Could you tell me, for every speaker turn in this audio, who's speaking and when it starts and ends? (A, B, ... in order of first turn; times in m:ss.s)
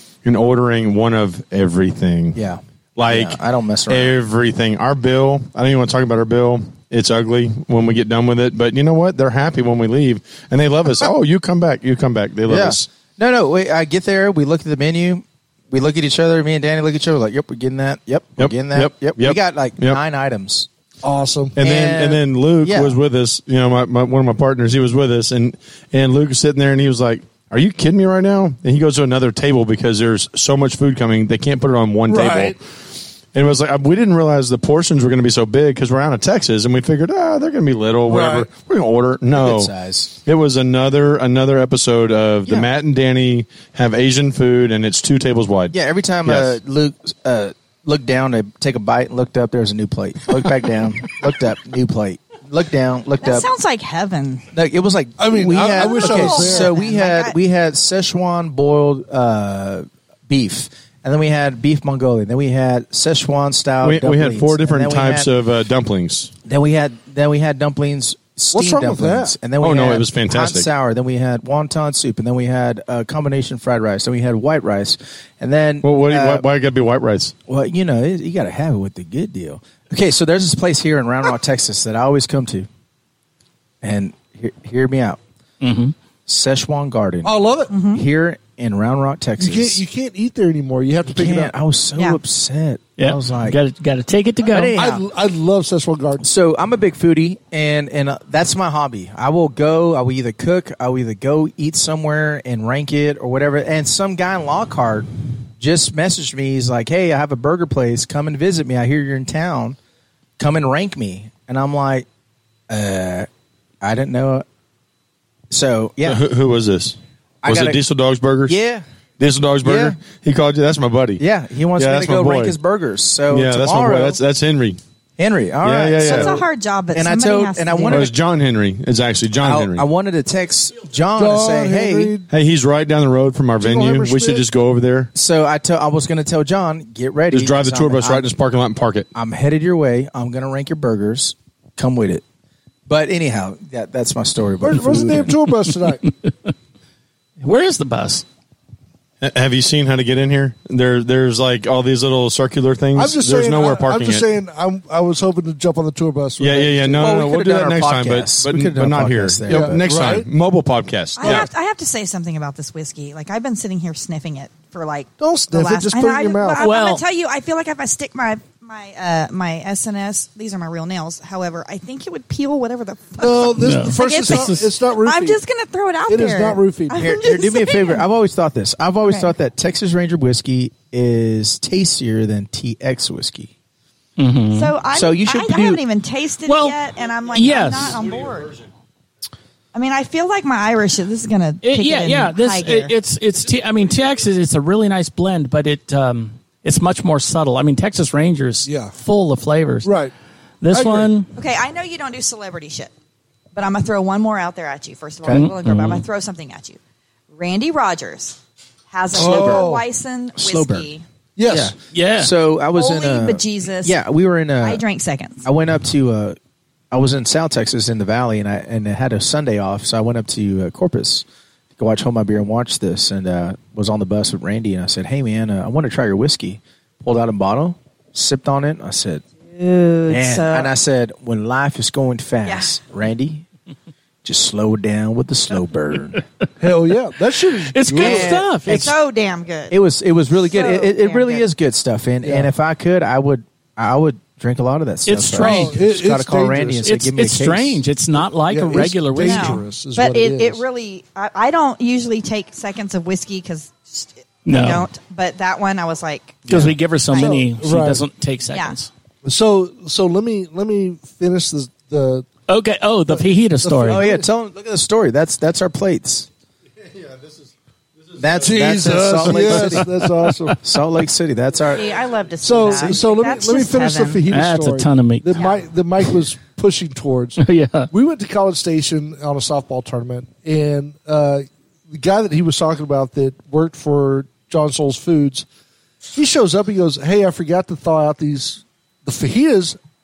0:00.2-0:02.4 A
0:02.3-0:04.2 B
0:03.0-0:03.4 A
0:03.9-0:12.9 A
0:12.5-0:20.7 B
0:18.4-0:20.0 A
0:21.0-0:21.6 C
0:21.6-0:32.6 A
0:21.6-0:23.0 B
0:32.1-0:32.6 C
0:33.3-0:39.7 A
0:38.1-0:38.5 C
0:39.3-0:40.1 B
0:40.2-0:45.7 A
0:45.7-0:53.5 B
0:46.2-0:46.6 A
0:53.2-0:54.4 D
0:54.5-1:05.3 B
0:55.2-0:56.7 C
0:55.6-0:57.3 D
1:03.8-1:06.3 A
1:06.4-1:16.4 B
1:08.5-1:09.4 C
1:09.6-1:10.7 A
1:15.8-1:17.3 A
1:17.5-1:22.7 B
1:23.8-1:25.2 B
1:25.6-1:25.9 E
1:26.3-1:29.8 B
1:27.2-1:27.7 C
1:27.7-1:28.0 D
1:29.4-1:31.5 C
1:31.0-1:33.6 B
1:33.0-1:34.8 E
1:34.4-1:35.0 B
1:34.7-1:36.2 C
1:36.2-1:45.1 B
1:45.6-1:49.8 B
1:50.4-1:52.0 B
1:52.7-1:53.3 B
1:53.8-1:54.4 B
1:55.5-1:56.2 B
1:56.0-1:58.5 A
1:57.4-1:57.8 B
1:58.5-1:58.8 B
1:59.2-2:01.2 A
1:59.6-2:00.0 B
2:01.2-2:04.2 B
2:01.8-2:02.5 A
2:03.3-2:04.8 A
2:05.2-2:08.1 B
2:05.6-2:06.4 A
2:06.0-2:08.1 D
2:07.9-2:09.8 A
2:09.4-2:12.1 B
2:11.2-2:12.3 C
2:12.3-2:15.1 A
2:13.6-2:14.4 C
2:15.1-2:18.2 B
2:17.3-2:19.1 A
2:19.1-2:22.2 B
2:22.9-2:25.3 B
2:24.6-2:26.0 C
2:27.4-2:28.2 E
2:29.2-2:34.3 A
2:32.9-2:37.2 C
2:36.4-2:41.5 A
2:37.0-2:39.8 B
2:39.5-2:40.3 C
2:41.2-2:58.0 D
2:45.2-2:46.6 C
2:46.6-2:47.0 E
2:53.2-2:55.4 C
2:53.6-2:54.7 E
2:56.1-2:57.0 C
2:56.9-3:03.5 B
2:59.0-2:59.3 D
3:04.2-3:04.7 E
3:04.5-3:08.5 D
3:04.9-3:05.8 B
3:06.5-3:06.8 E
3:07.3-3:08.0 E
3:09.7-3:12.9 D
3:11.6-3:19.9 E
3:18.6-3:18.9 C
3:19.8-3:20.1 C
3:20.6-3:21.3 E
3:20.7-3:21.1 C
3:21.4-3:22.9 D
3:23.5-3:26.8 D
3:25.3-3:26.0 E
3:27.3-3:28.4 D
3:28.9-3:31.0 D
3:29.1-3:29.8 C
3:29.1-3:29.7 B
3:30.4-3:30.9 B
3:31.4-3:31.7 C
3:31.4-3:34.8 B
3:31.9-3:32.3 E
3:32.7-3:34.0 D
3:34.6-3:35.5 D
3:35.4-3:36.4 B
3:36.9-3:41.2 B
3:41.8-3:49.2 B
3:49.5-3:50.7 D
3:50.1-3:53.4 B
3:52.4-3:52.7 D
3:54.2-3:56.2 B
3:56.6-3:58.9 C
3:57.5-3:58.8 E
3:57.9-3:58.9 B
3:58.7-3:59.8 D
3:59.7-4:07.8 B
4:00.5-4:01.5 D
4:02.2-4:02.5 C
4:05.1-4:05.8 E
4:05.4-4:06.8 C
4:06.8-4:09.6 E
4:08.5-4:10.6 C
4:09.2-4:16.4 D
4:14.4-4:14.8 E
4:16.4-4:16.8 B
4:16.5-4:18.9 E
4:17.1-4:17.4 D
4:17.1-4:18.0 C
4:19.2-4:22.3 C
4:22.5-4:24.0 E
4:23.1-4:24.2 C
4:23.8-4:26.3 B
4:28.2-4:29.9 B
4:28.4-4:30.6 C
4:30.6-4:32.0 B
4:31.7-4:34.2 D
4:32.4-4:37.4 C
4:34.3-4:35.3 E
4:37.4-4:37.9 E
4:37.9-4:45.4 C
4:46.1-4:49.8 C